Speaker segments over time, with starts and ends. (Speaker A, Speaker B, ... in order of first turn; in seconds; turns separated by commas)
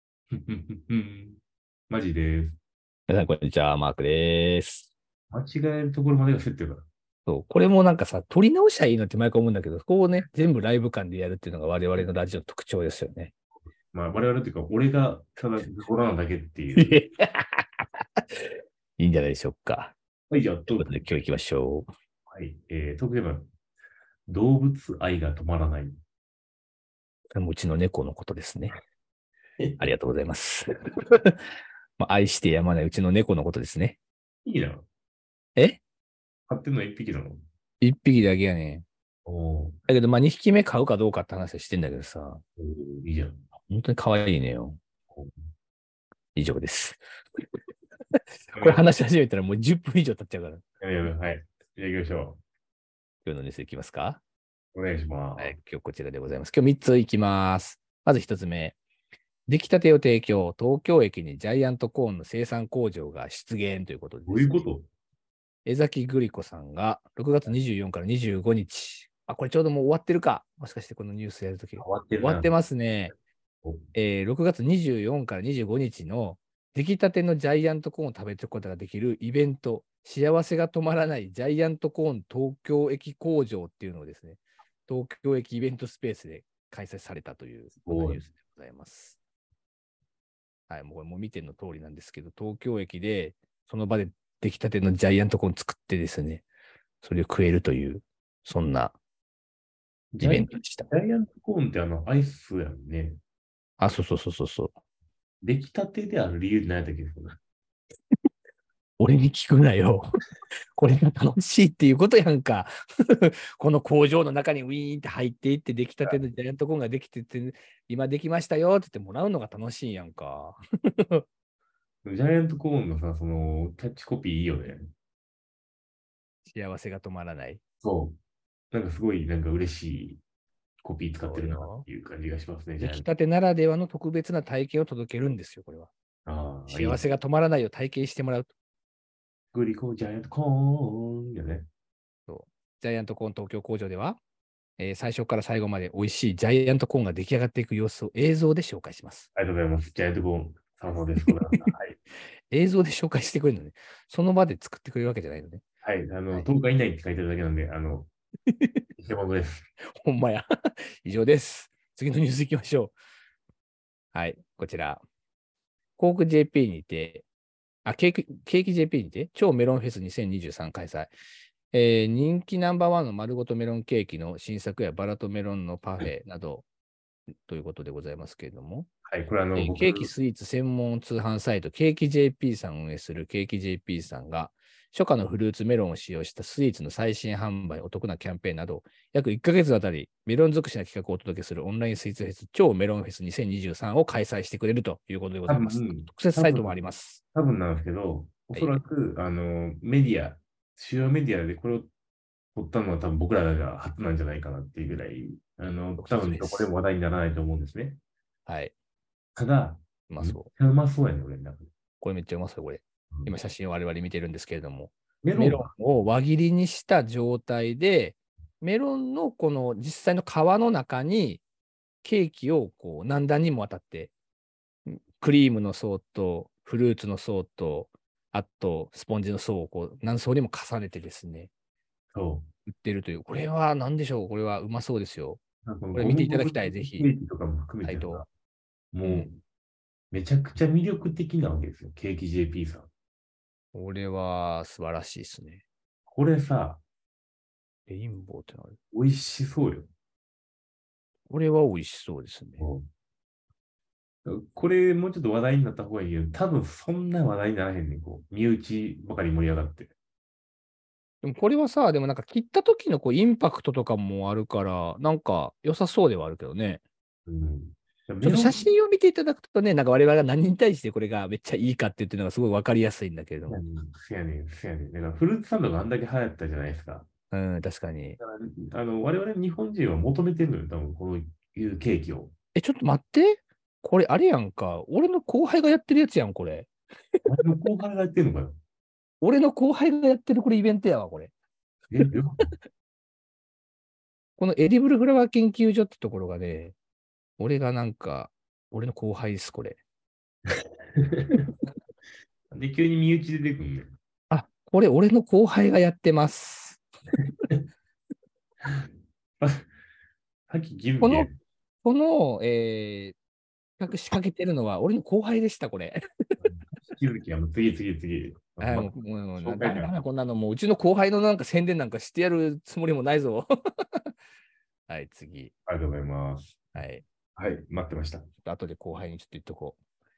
Speaker A: 0.3-2.6, Speaker B: 3.1-4.9, Speaker A: 5.3-6.9, Speaker B: 7.3-13.3, Speaker A: 13.9-17.0, Speaker B: 16.8-19.9, Speaker A: 20.3-21.1, Speaker B: 20.7-21.9, Speaker A: 22.3-23.5, Speaker A: 24.3-26.0, Speaker B: 27.3-28.7, Speaker B: 29.8-31.4, Speaker B: 32.0-34.0, Speaker A: 34.5-34.9, Speaker A: 36.5-37.4, Speaker B: 37.8-38.9, Speaker A: 39.3-39.8, Speaker B: 39.9-42.4, Speaker A: 42.6-43.4, Speaker B: 43.7-44.8, Speaker B: 46.4-47.0, Speaker B: 48.1-50.6, Speaker A: 48.5-48.9, Speaker A: 50.8-52.4, Speaker B: 53.2-54.2, Speaker A: 54.7-55.6, Speaker B: 55.4-58.8, Speaker B: 59.5-64.7, Speaker A: 64.3-64.9, Speaker B: 65.7-73.1, Speaker A: 71.8-72.5, Speaker B: 74.0-89.2, Speaker A: 87.8-88.2, Speaker B: 90.7-96.5, Speaker B: 97.0-99.0, Speaker A: 100.1-103.2, Speaker B: 100.2-100.9, Speaker B: 103.8-104.7, Speaker A: 105.4-107.4, Speaker B: 109.0-110.1, Speaker B: 110.8-121.2, Speaker A: 122.0-124.9, Speaker B: 126.5-127.6, Speaker A: 127.8-128.2, Speaker A: 128.7-130.2, Speaker A: 130.8-133.1, Speaker B: 131.2-131.9, Speaker B: 132.8-135.9, Speaker A: 136.3-137.1, Speaker B: 136.7-138.5, Speaker A: 139.5-141.7, Speaker B: 142.3-144.2, Speaker B: 144.8-149.3, Speaker A: 149.3-152.0, Speaker B: 151.2-151.7, Speaker B: 152.5-155.6, Speaker A: 155.8-158.1, Speaker B: 158.5-158.8, Speaker A: 159.0-159.7, Speaker B: 160.0-163.0, Speaker B: 164.1-165.0, Speaker B: 166.0-167.2, Speaker B: 167.8-171.1, Speaker B: 171.7-176.7, Speaker B: 177.4-178.9, Speaker A: 179.1-180.1, Speaker B: 179.6-197.2, Speaker A: 195.5-196.7, Speaker A: 197.3-201.9, Speaker A: 202.6-208.0, Speaker B: 206.0-206.7, Speaker B: 208.5-208.7, Speaker A: 209.4-211.7, Speaker B: 210.1-210.5, Speaker B: 212.0-221.4, Speaker A: 215.2-215.7, Speaker B: 222.0-224.1, Speaker B: 224.9-231.5, Speaker A: 232.1-232.5, Speaker B: 232.7-235.4, Speaker A: 235.7-238.3, Speaker B: 235.9-237.1, Speaker B: 237.8-238.3, Speaker A: 238.9-239.3, Speaker B: 239.0-239.4, Speaker A: 240.1-242.9, Speaker B: 243.7-245.6, Speaker A: 246.1-246.8, Speaker B: 247.9-248.8, Speaker A: 248.9-249.9, Speaker B: 251.3-252.7, Speaker A: 252.6-252.9, Speaker A: 254.2-259.9, Speaker B: 261.2-266.8, Speaker A: 267.3-268.7, Speaker B: 268.2-273.6, Speaker A: 273.5-277.1, Speaker B: 277.3-278.2, Speaker A: 278.2-282.3, Speaker B: 282.6-287.3, Speaker A: 287.2-288.6, Speaker B: 289.2-291.3, Speaker A: 291.9-292.4, Speaker B: 294.4-296.8, Speaker B: 297.4-299.8, Speaker A: 301.0-301.5, Speaker A: 302.5-303.9, Speaker B: 304.3-306.8, Speaker A: 308.6-309.7, Speaker A: 310.5-311.4, Speaker B: 311.0-311.3, Speaker B: 311.8-313.2, Speaker B: 313.8-316.5, Speaker A: 316.4-320.0, Speaker B: 318.6-324.1, Speaker B: 324.9-325.5, Speaker A: 325.7-326.8, Speaker B: 326.8-327.0, Speaker A: 327.4-328.2, Speaker B: 328.4-329.8